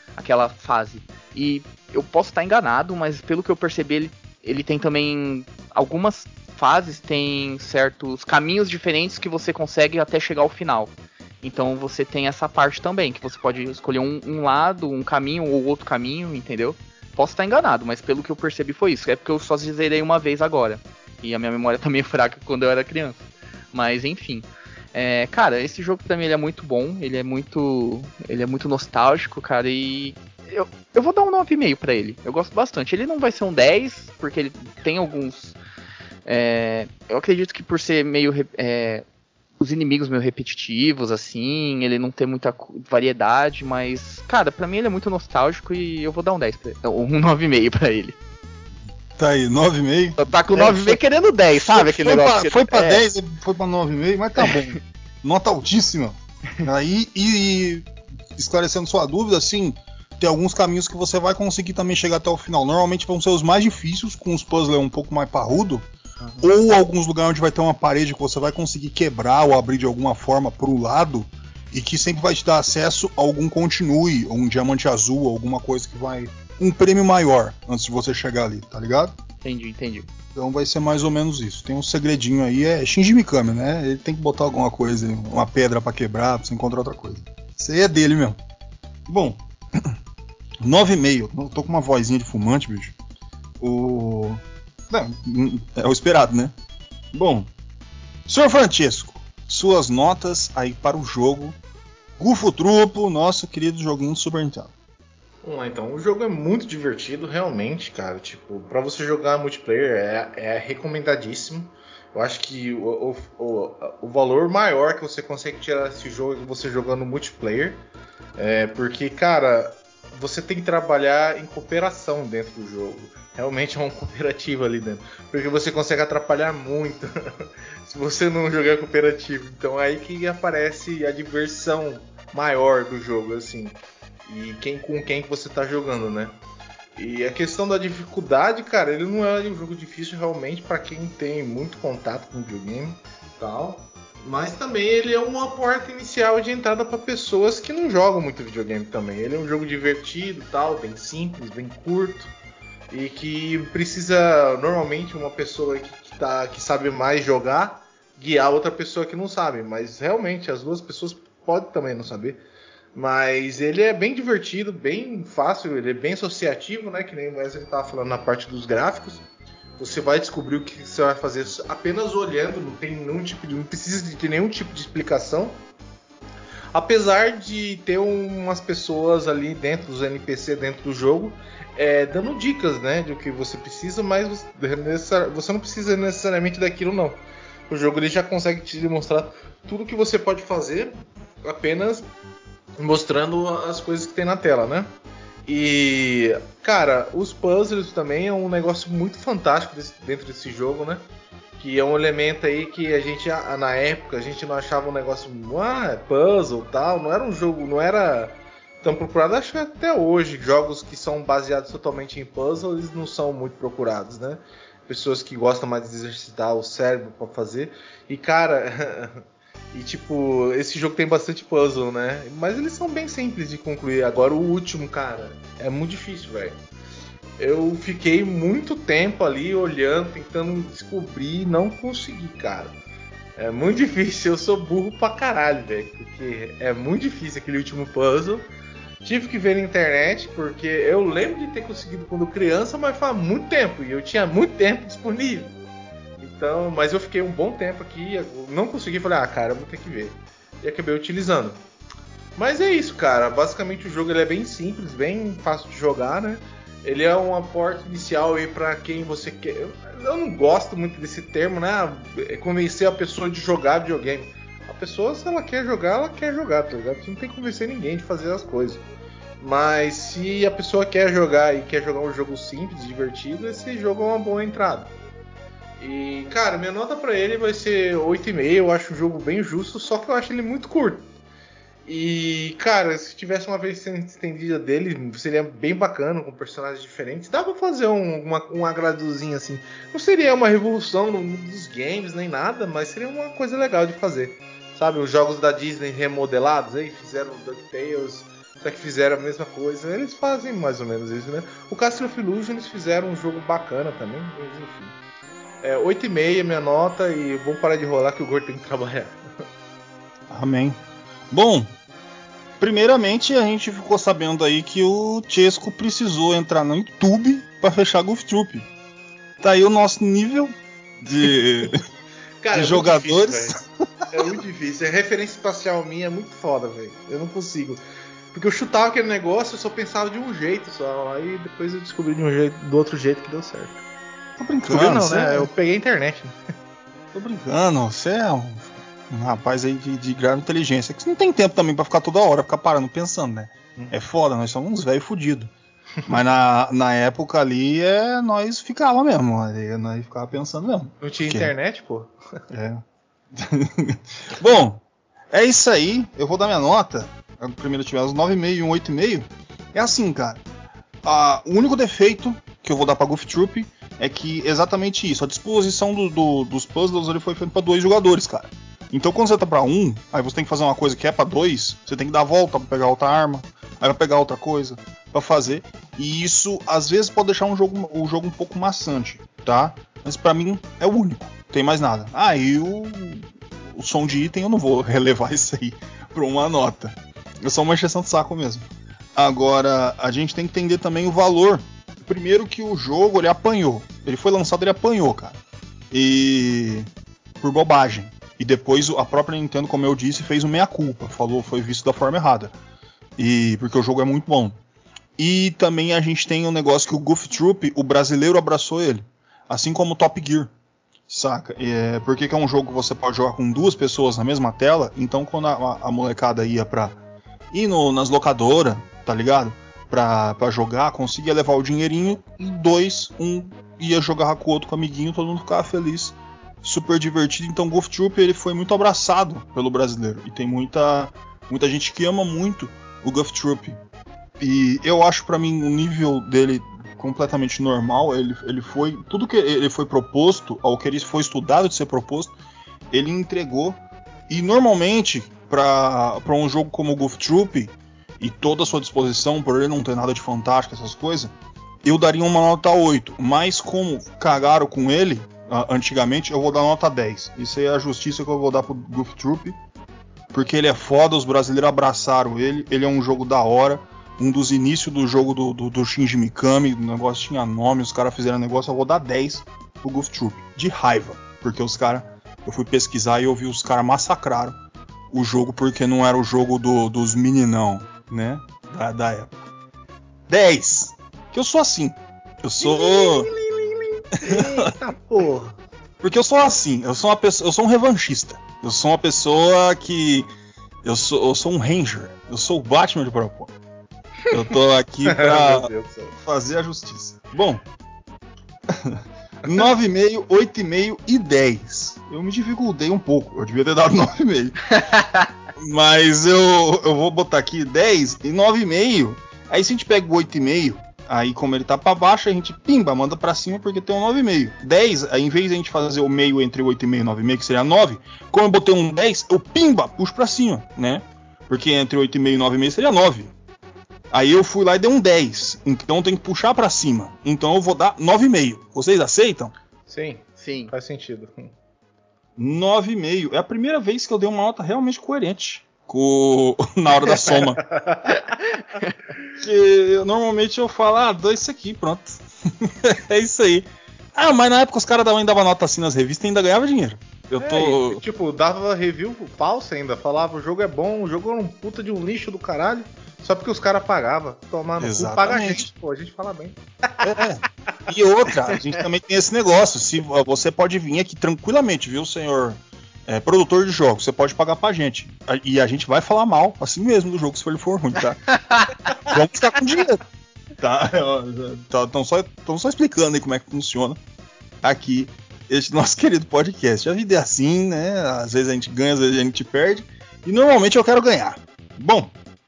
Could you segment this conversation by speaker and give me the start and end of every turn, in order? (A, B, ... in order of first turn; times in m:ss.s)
0:00.2-0:35.6 A
0:36.2-0:39.0 A
0:39.6-0:48.2 A
0:49.2-0:51.0 B
0:50.2-0:53.0 A
0:51.5-1:05.9 B
1:06.4-1:19.1 B
1:19.4-1:20.1 A
1:20.3-1:28.4 B
1:29.1-1:29.9 B
1:30.6-1:32.9 B
1:33.6-1:36.5 B
1:37.1-1:37.5 B
1:38.3-1:41.6 B
1:42.2-1:44.7 B
1:45.4-1:57.8 C
1:58.4-2:16.4 C
2:17.0-2:32.3 C
2:32.9-2:42.4 C
2:42.9-2:49.2 C
2:49.8-2:55.6 C
2:56.7-3:12.1 C
3:12.8-3:14.9 C
3:15.5-3:21.0 C
3:21.6-3:46.6 C
3:47.4-3:52.8 C
3:53.4-3:58.5 C
3:59.0-4:05.6 C
4:06.2-4:11.6 C
4:12.4-4:28.8 C
4:29.4-4:34.9 C
4:35.8-4:41.1 C
4:41.9-5:05.0 C
5:05.6-5:09.2 C
5:10.3-5:10.8 B
5:11.3-5:11.7 B
5:12.6-5:18.7 B
5:19.4-5:21.8 B
5:22.4-5:23.6 C
5:22.5-5:24.1 B
5:24.1-5:27.8 C
5:28.3-5:33.8 C
5:34.4-5:35.5 B
5:34.7-5:36.4 C
5:37.1-5:45.5 B
5:46.1-5:51.5 B
5:51.0-5:52.1 C
5:52.5-5:52.8 B
5:53.3-6:00.4 B
6:01.0-6:35.4 B
6:35.9-6:36.9 B
6:37.4-6:42.6 B
6:43.2-6:44.6 B
6:45.2-6:50.5 B
6:51.1-6:57.0 B
6:57.5-7:13.8 B
7:14.4-7:22.3 B
7:22.9-7:39.6 B
7:40.3-7:54.6 B
7:55.1-7:59.3 B
8:00.3-8:03.3 B
8:02.6-8:05.6 C
8:04.2-8:04.7 B
8:06.0-8:10.3 B
8:10.8-8:13.5 B
8:14.3-8:17.6 B
8:15.0-8:16.1 C
8:18.7-8:24.7 B
8:25.6-8:43.3 B
8:44.1-8:49.5 B
8:49.9-8:51.5 C
8:50.4-8:50.7 A
8:52.4-8:57.6 B
8:57.2-8:58.4 C
8:58.6-8:58.9 A
8:59.4-9:08.0 B
9:07.4-9:17.2 C
9:14.8-9:15.7 B
9:17.0-9:28.3 B
9:29.0-9:30.0 B
9:30.6-9:34.0 B
9:34.6-9:42.1 B